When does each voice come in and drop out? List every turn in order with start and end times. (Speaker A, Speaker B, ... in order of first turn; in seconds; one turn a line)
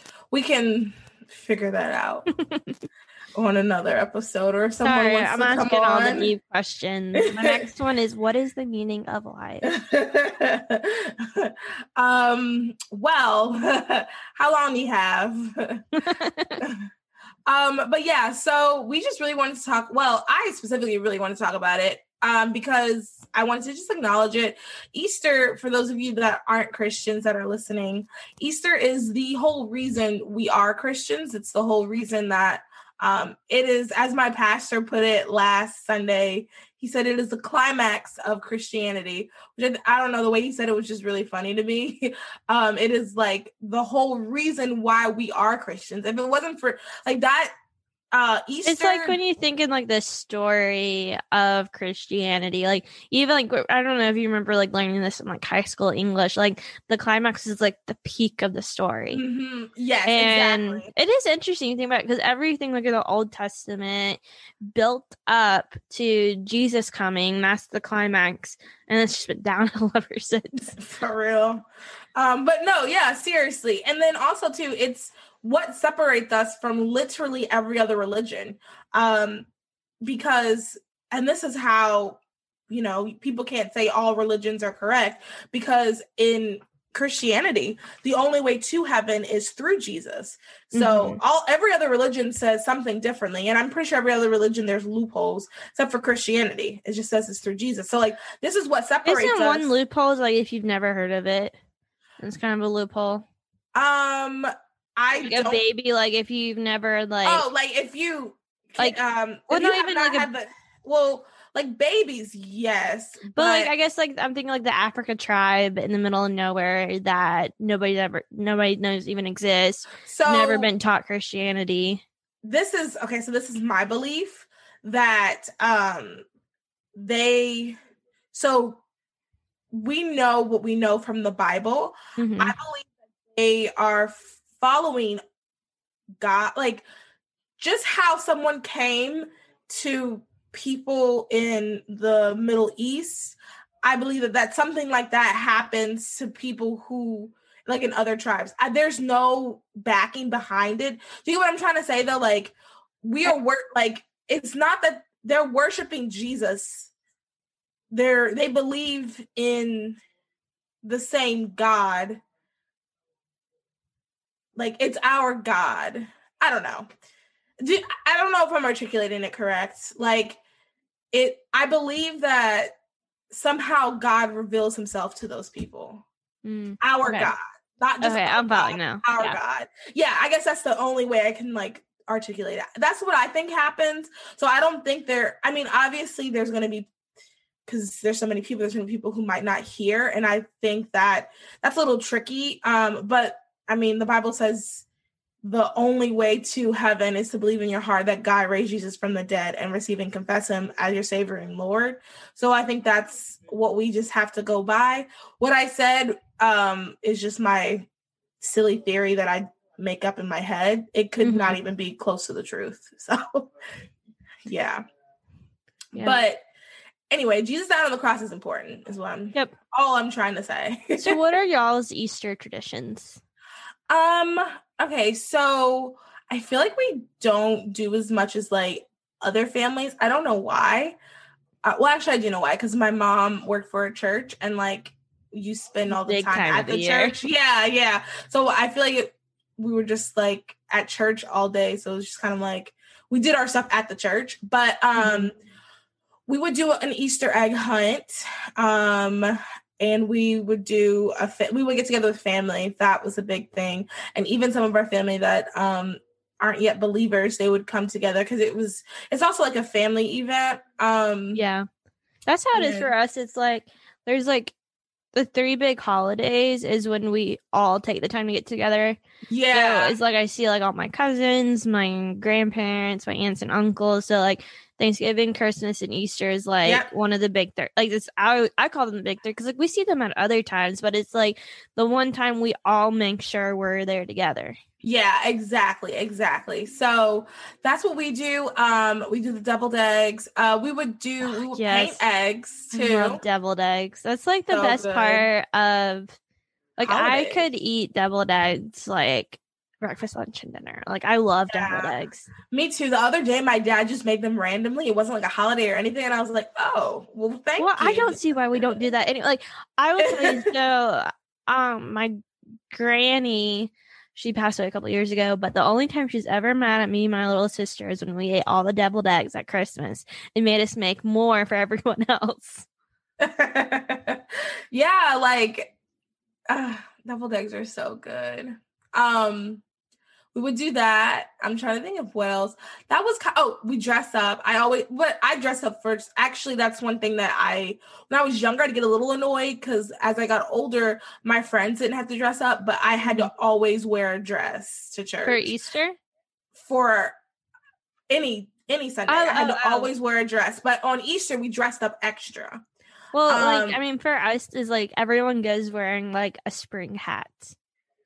Speaker A: 0.3-2.3
Speaker B: 2.4-2.7
Speaker A: 3.4-6.3
Speaker B: 4.8-9.8
Speaker A: 7.2-7.7
Speaker A: 9.7-15.8
Speaker B: 16.0-16.6
Speaker A: 16.6-16.9
Speaker A: 17.5-47.5
Speaker A: 48.1-49.2
Speaker B: 48.7-59.2
Speaker A: 59.1-60.9
Speaker B: 60.1-70.7
Speaker A: 70.7-71.6
Speaker A: 72.2-79.5
Speaker A: 80.0-82.2
Speaker A: 82.7-99.7
Speaker B: 90.7-91.2
Speaker B: 99.0-101.5
Speaker B: 102.2-103.3
Speaker A: 103.8-105.6
Speaker B: 105.2-107.5
Speaker A: 107.2-113.7
Speaker B: 108.8-110.3
Speaker B: 113.4-122.0
Speaker A: 120.0-120.7
Speaker A: 122.4-126.2
Speaker A: 127.0-127.8
Speaker A: 128.3-128.8
Speaker A: 129.7-135.2
Speaker B: 132.2-132.6
Speaker A: 136.2-136.8
Speaker A: 137.6-156.9
Speaker A: 157.9-160.0
Speaker A: 160.8-162.2
Speaker A: 164.6-166.9
Speaker A: 167.6-170.4
Speaker A: 171.1-172.8
Speaker A: 173.3-176.1
Speaker B: 176.4-177.3
Speaker A: 176.8-186.9
Speaker B: 178.0-179.4
Speaker A: 187.7-194.9
Speaker A: 195.4-207.9
Speaker A: 208.4-213.5
Speaker B: 211.2-211.6
Speaker A: 214.5-214.8
Speaker B: 215.9-216.2
Speaker A: 215.9-216.4
Speaker A: 217.1-221.2
Speaker B: 221.0-223.2
Speaker A: 223.9-231.0
Speaker A: 231.6-245.4
Speaker B: 235.9-237.1
Speaker B: 245.0-245.3
Speaker A: 246.3-261.4
Speaker B: 261.3-261.7
Speaker B: 262.3-264.6
Speaker A: 262.5-262.9
Speaker B: 265.1-269.0
Speaker A: 269.3-270.0
Speaker B: 269.5-284.6
Speaker A: 284.8-293.2
Speaker B: 291.3-292.0
Speaker B: 292.7-296.2
Speaker A: 294.5-295.3
Speaker B: 296.8-302.3
Speaker A: 296.8-297.4
Speaker A: 301.5-301.9
Speaker A: 302.5-308.8
Speaker B: 307.6-312.1
Speaker A: 310.0-310.5
Speaker B: 312.7-322.7
Speaker A: 323.2-324.2
Speaker A: 324.7-325.7
Speaker A: 326.5-329.6
Speaker A: 330.3-345.5
Speaker B: 343.1-343.3
Speaker B: 345.2-346.0
Speaker A: 346.6-347.1
Speaker A: 348.1-352.6
Speaker B: 349.1-349.9
Speaker B: 353.1-357.6
Speaker A: 353.3-353.8